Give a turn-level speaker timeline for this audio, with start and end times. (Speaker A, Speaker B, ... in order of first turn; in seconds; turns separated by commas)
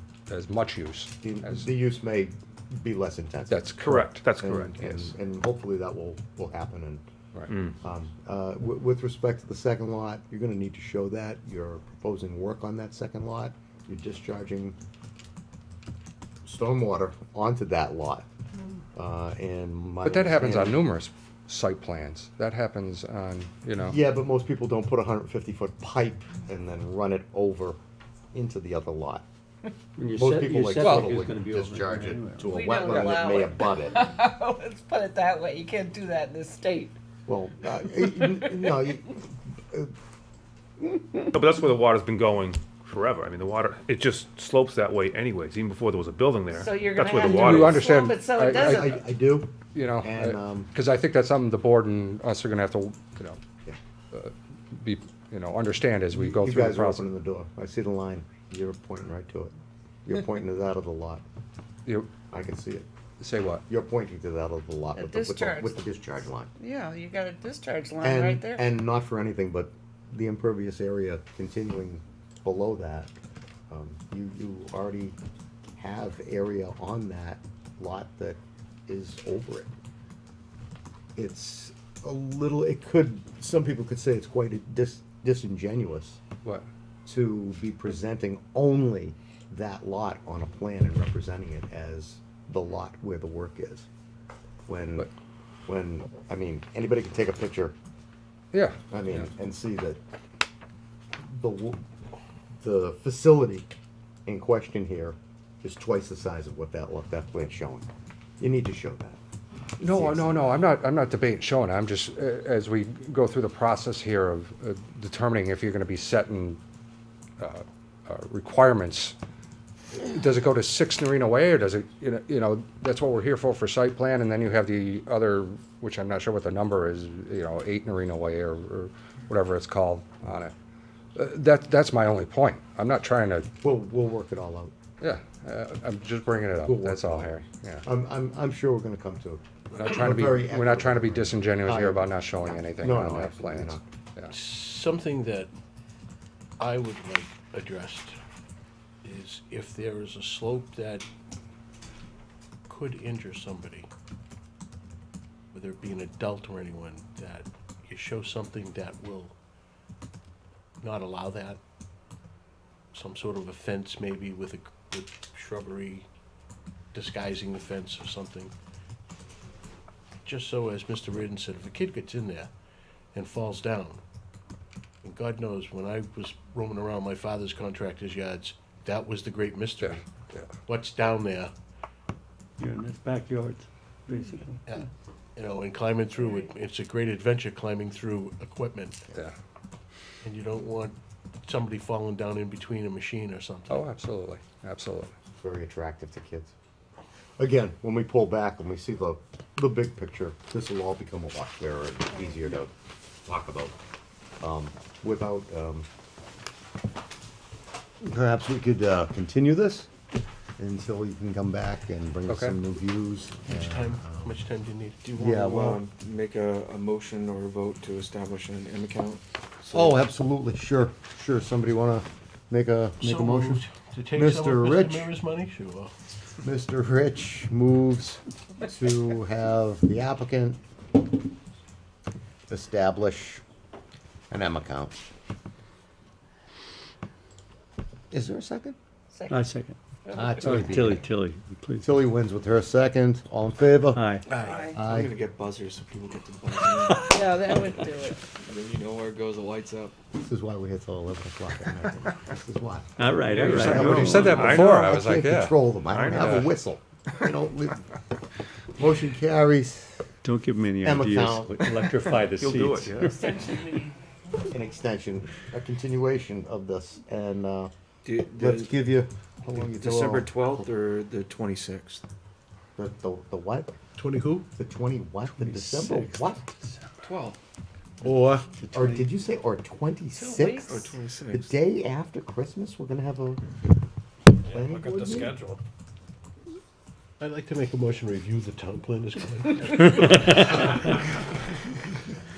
Speaker A: 0.3-1.6, Speaker B: 1.2-7.0, Speaker A: 3.5-4.2, Speaker C: 4.1-4.7, Speaker B: 7.8-14.8, Speaker B: 16.4-18.2, Speaker B: 18.9-20.8, Speaker A: 20.0-24.0, Speaker B: 23.8-27.8, Speaker B: 28.3-29.2, Speaker D: 30.0-32.5, Speaker B: 30.1-34.0, Speaker A: 30.8-31.2, Speaker E: 32.5-36.9, Speaker A: 32.9-33.2, Speaker B: 37.3-39.9, Speaker C: 41.3-47.6, Speaker E: 46.5-48.9, Speaker F: 47.0-47.7, Speaker A: 47.2-49.0, Speaker B: 48.5-50.7, Speaker A: 49.7-53.4, Speaker A: 54.1-57.1, Speaker B: 56.1-59.5, Speaker B: 60.0-61.2, Speaker B: 62.3-62.9, Speaker A: 63.2-63.6, Speaker B: 63.7-66.5, Speaker E: 64.9-65.8, Speaker E: 66.6-68.6, Speaker B: 68.0-73.1, Speaker B: 73.7-75.2, Speaker B: 75.8-79.7, Speaker B: 81.2-86.2, Speaker B: 87.0-93.9, Speaker B: 94.7-95.1, Speaker B: 95.7-97.7, Speaker A: 98.5-99.2, Speaker B: 98.9-100.0, Speaker B: 101.2-101.8, Speaker B: 102.6-103.7, Speaker B: 104.2-107.9, Speaker B: 108.4-109.2, Speaker A: 109.8-116.6, Speaker B: 109.8-110.4, Speaker A: 117.4-119.1, Speaker A: 120.0-130.5, Speaker A: 131.1-133.5, Speaker B: 133.6-134.7, Speaker A: 135.0-137.8, Speaker B: 136.7-143.8, Speaker A: 139.7-144.3, Speaker F: 144.3-145.5, Speaker F: 146.6-148.2, Speaker F: 149.0-151.1, Speaker F: 152.7-153.9, Speaker F: 155.5-159.3, Speaker F: 160.8-161.6, Speaker F: 162.9-166.1, Speaker F: 166.9-168.5, Speaker F: 170.2-172.5, Speaker F: 173.1-174.0, Speaker F: 175.0-180.0, Speaker A: 179.8-180.5, Speaker F: 180.7-181.5, Speaker D: 182.6-184.6, Speaker F: 184.6-189.0, Speaker F: 190.2-193.9, Speaker A: 193.7-195.1, Speaker B: 195.4-196.5, Speaker B: 197.4-202.7, Speaker B: 203.2-203.7, Speaker B: 204.4-205.9, Speaker B: 208.0-209.9, Speaker B: 210.6-214.3, Speaker A: 212.3-212.6, Speaker F: 213.5-215.0, Speaker G: 215.0-220.0, Speaker B: 215.2-215.8, Speaker B: 219.7-223.6, Speaker F: 223.0-225.9, Speaker B: 224.1-225.1, Speaker B: 226.4-230.6, Speaker B: 232.5-233.4, Speaker B: 234.3-235.0, Speaker B: 238.1-238.8, Speaker E: 239.1-239.4, Speaker D: 239.3-239.8, Speaker E: 240.0-240.6, Speaker B: 240.1-241.0, Speaker D: 240.4-241.9, Speaker B: 241.8-244.0, Speaker D: 243.9-244.3, Speaker G: 244.3-249.9, Speaker E: 244.4-244.8, Speaker B: 244.7-245.1, Speaker E: 246.9-248.3, Speaker B: 250.1-257.9, Speaker D: 253.0-254.6, Speaker F: 253.3-254.8, Speaker A: 253.4-255.0, Speaker C: 254.4-256.2, Speaker F: 256.1-256.4, Speaker A: 256.1-256.5, Speaker B: 258.8-260.1, Speaker D: 260.2-263.2, Speaker B: 260.8-261.7, Speaker C: 262.4-263.0, Speaker F: 262.6-263.5, Speaker E: 263.1-263.9, Speaker B: 264.5-267.7, Speaker G: 268.0-268.8, Speaker B: 268.3-270.6, Speaker G: 269.5-272.0, Speaker B: 272.8-273.7, Speaker F: 273.9-274.4, Speaker B: 274.5-276.4, Speaker D: 275.4-276.2, Speaker G: 277.0-277.4, Speaker F: 278.0-278.4, Speaker B: 278.6-280.7, Speaker E: 280.2-280.9, Speaker G: 280.6-281.6, Speaker B: 281.3-283.4, Speaker B: 284.4-285.4, Speaker F: 284.6-285.6, Speaker F: 287.2-290.0, Speaker D: 289.7-290.6